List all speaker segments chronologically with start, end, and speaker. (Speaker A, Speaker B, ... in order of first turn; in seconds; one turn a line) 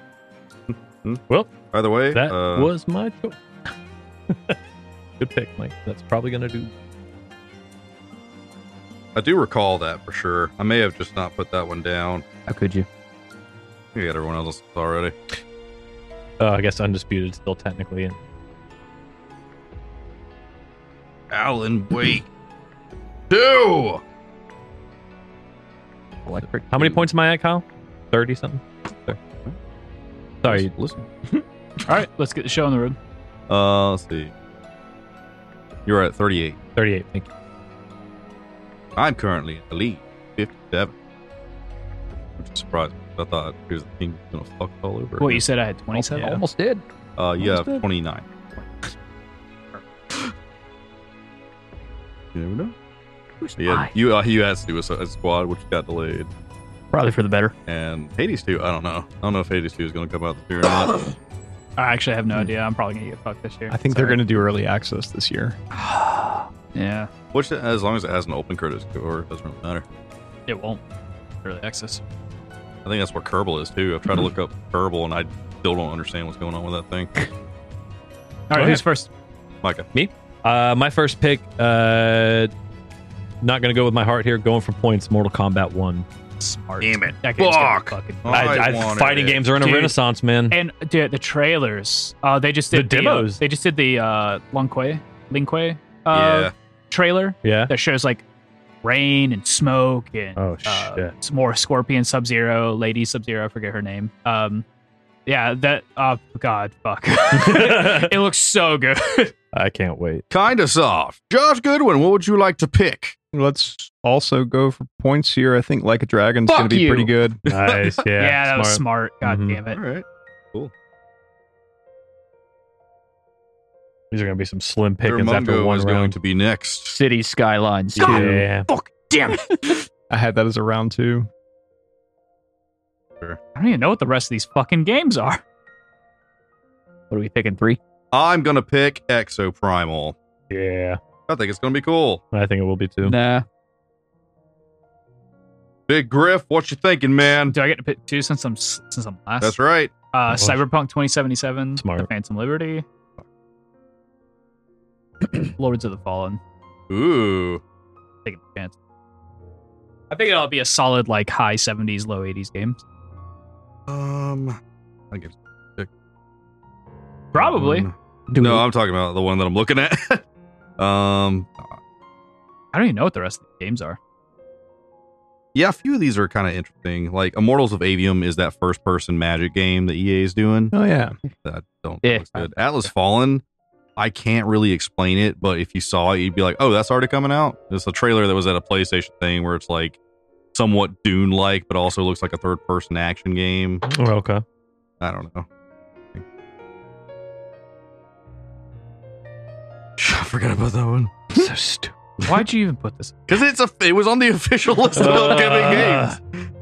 Speaker A: 0.7-2.7
Speaker B: 2.1-3.7
Speaker B: 4.3-4.6
Speaker B: 5.2-6.7
Speaker A: 9.2-12.2
Speaker C: 12.5-12.9
Speaker A: 13.9-15.1
Speaker B: 16.4-18.2
Speaker A: 21.3-22.3
Speaker A: 23.3-24.0
Speaker C: 26.3-26.9
Speaker B: 26.7-29.2
Speaker A: 30.4-31.1
Speaker B: 30.4-30.7
Speaker D: 31.9-33.0
Speaker A: 33.5-34.3
Speaker A: 35.9-36.6
Speaker B: 36.8-37.3
Speaker A: 39.0-40.9
Speaker A: 42.4-45.4
Speaker D: 45.2-46.4
Speaker C: 45.9-46.8
Speaker A: 47.2-48.3
Speaker C: 47.4-47.8
Speaker A: 52.3-52.7
Speaker C: 53.4-53.9
Speaker A: 53.6-56.3
Speaker C: 56.9-57.5
Speaker A: 57.7-61.1
Speaker D: 61.8-64.2
Speaker E: 63.7-65.6
Speaker D: 65.7-67.1
Speaker A: 67.3-69.8
Speaker D: 70.5-70.8
Speaker D: 71.4-72.0
Speaker A: 72.8-77.1
Speaker D: 78.5-79.1
Speaker B: 78.5-78.8
Speaker B: 79.9-82.5
Speaker B: 83.4-86.1
Speaker D: 86.4-88.6
Speaker A: 86.8-89.4
Speaker B: 88.3-90.6
Speaker D: 89.6-90.0
Speaker D: 90.5-98.2
Speaker B: 92.7-93.4
Speaker A: 96.1-96.5
Speaker B: 97.4-97.7
Speaker D: 98.8-104.7
Speaker B: 100.4-101.1
Speaker D: 105.3-109.3
Speaker B: 107.3-108.1
Speaker B: 109.5-110.2
Speaker A: 110.3-113.2
Speaker E: 113.3-117.4
Speaker D: 116.5-117.0
Speaker C: 116.7-117.1
Speaker A: 117.4-118.0
Speaker B: 117.5-119.6
Speaker D: 118.2-119.8
Speaker A: 119.7-120.7
Speaker B: 124.1-126.2
Speaker A: 125.0-127.0
Speaker C: 126.9-128.4
Speaker B: 128.0-128.7
Speaker D: 128.0-129.8
Speaker E: 130.1-131.3
Speaker D: 133.6-135.4
Speaker C: 137.1-137.8
Speaker A: 138.1-140.2
Speaker B: 140.5-141.0
Speaker A: 141.3-142.2
Speaker B: 142.3-143.2
Speaker C: 143.0-143.4
Speaker A: 145.9-147.6
Speaker D: 147.4-149.6
Speaker A: 149.4-149.9
Speaker D: 150.1-152.8
Speaker B: 150.3-150.6
Speaker B: 151.8-152.1
Speaker D: 155.3-156.4
Speaker A: 156.9-157.6
Speaker D: 158.2-158.8
Speaker D: 160.1-162.8
Speaker A: 163.9-164.6
Speaker A: 165.1-165.9
Speaker D: 167.3-167.9
Speaker A: 167.3-170.2
Speaker C: 168.3-168.7
Speaker A: 170.8-171.8
Speaker D: 172.7-174.0
Speaker A: 175.6-180.8
Speaker E: 180.7-181.2
Speaker A: 181.4-183.4
Speaker C: 182.0-182.6
Speaker A: 184.0-190.0
Speaker A: 190.5-193.9
Speaker B: 193.9-194.4
Speaker A: 195.0-195.5
Speaker A: 200.0-201.5
Speaker B: 201.3-201.9
Speaker D: 202.2-203.2
Speaker A: 203.3-206.2
Speaker B: 204.9-206.2